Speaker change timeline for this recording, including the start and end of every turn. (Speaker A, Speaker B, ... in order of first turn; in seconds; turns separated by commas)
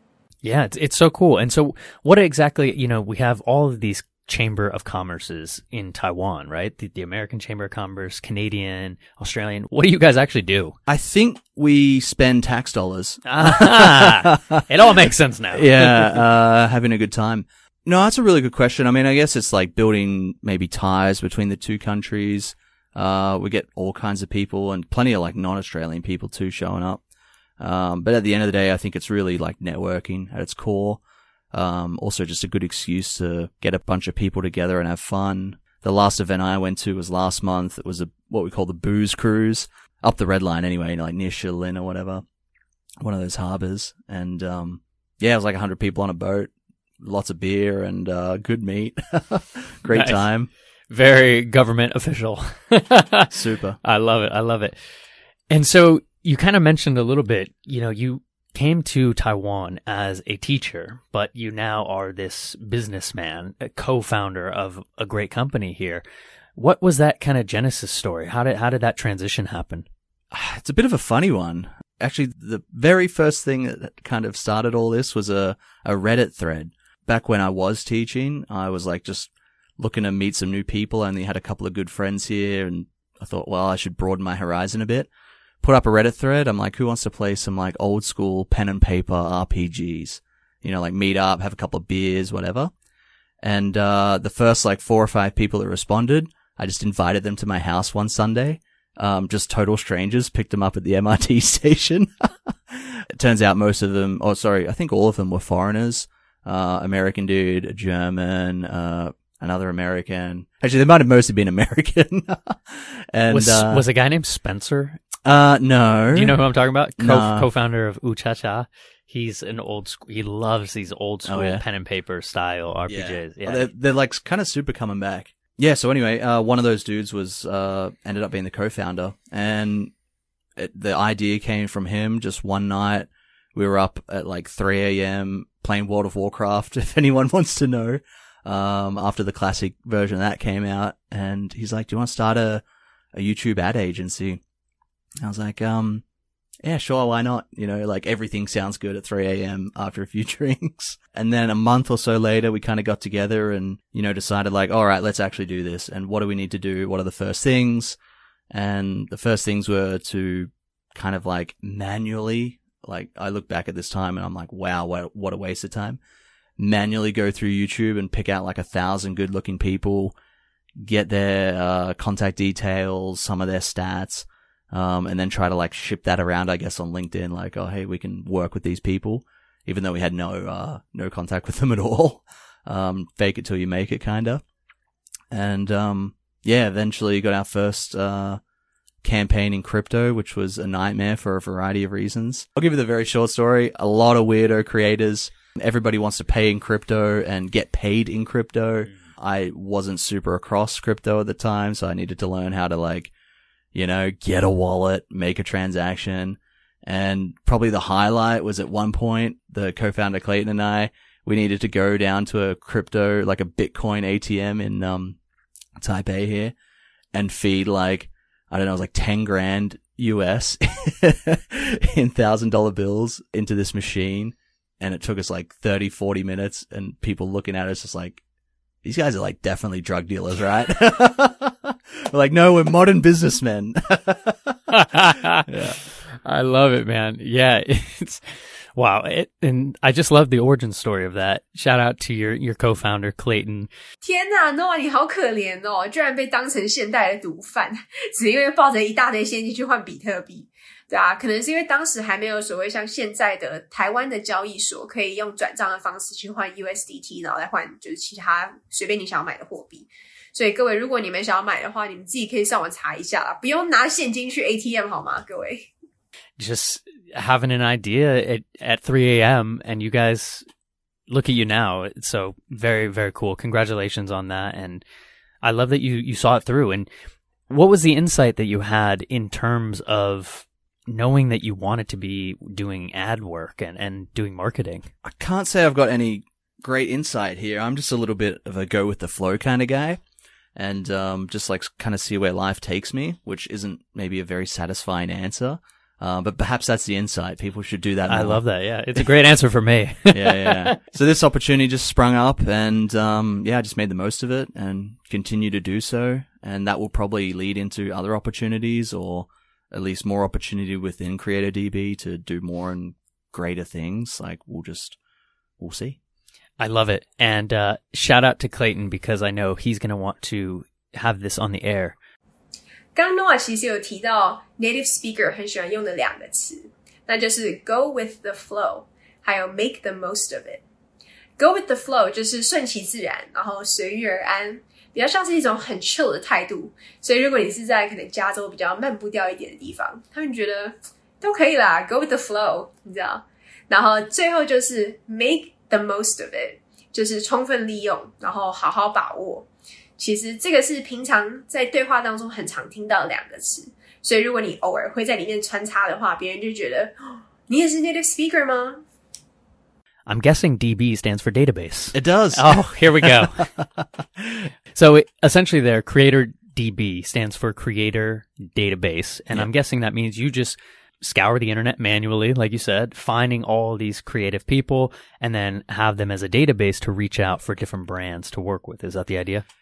Speaker A: 0.4-10.8, Speaker B: 10.9-14.7, Speaker A: 13.2-16.2, Speaker B: 15.5-27.0, Speaker B: 27.6-31.0, Speaker B: 31.5-42.2, Speaker B: 43.0-50.5, Speaker A: 49.9-50.2, Speaker A: 50.9-54.8, Speaker B: 53.3-53.8, Speaker A: 55.5-66.0, Speaker A: 66.5-69.9, Speaker B: 70.3-85.1, Speaker B: 85.6-92.7, Speaker B: 93.4-113.8, Speaker A: 113.3-115.0, Speaker B: 115.2-116.4, Speaker A: 116.1-123.7, Speaker B: 117.0-117.5, Speaker B: 121.2-121.6, Speaker B: 122.9-129.9, Speaker B: 130.6-144.4, Speaker B: 145.2-146.0, Speaker B: 146.6-158.0, Speaker B: 158.5-166.0, Speaker B: 166.6-170.1, Speaker B: 170.8-184.4, Speaker B: 185.3-188.4, Speaker B: 189.0-203.1, Speaker B: 203.7-215.2, Speaker B: 215.8-216.5, Speaker B: 217.1-228.2, Speaker B: 228.8-234.7, Speaker A: 234.7-235.5, Speaker B: 235.4-235.8, Speaker A: 236.1-243.7, Speaker C: 244.0-265.7, Speaker A: 266.4-270.4, Speaker A: 271.1-274.8, Speaker A: 275.4-276.9, Speaker A: 277.5-284.9, Speaker B: 285.0-290.0, Speaker B: 290.6-298.4, Speaker A: 298.1-300.8, Speaker B: 300.1-315.0, Speaker B: 315.6-316.0, Speaker A: 316.6-321.9, Speaker C: 322.9-330.6, Speaker C: 331.4-358.8, Speaker A: 360.1-363.5, Speaker B: 361.9-364.4, Speaker A: 364.7-379.4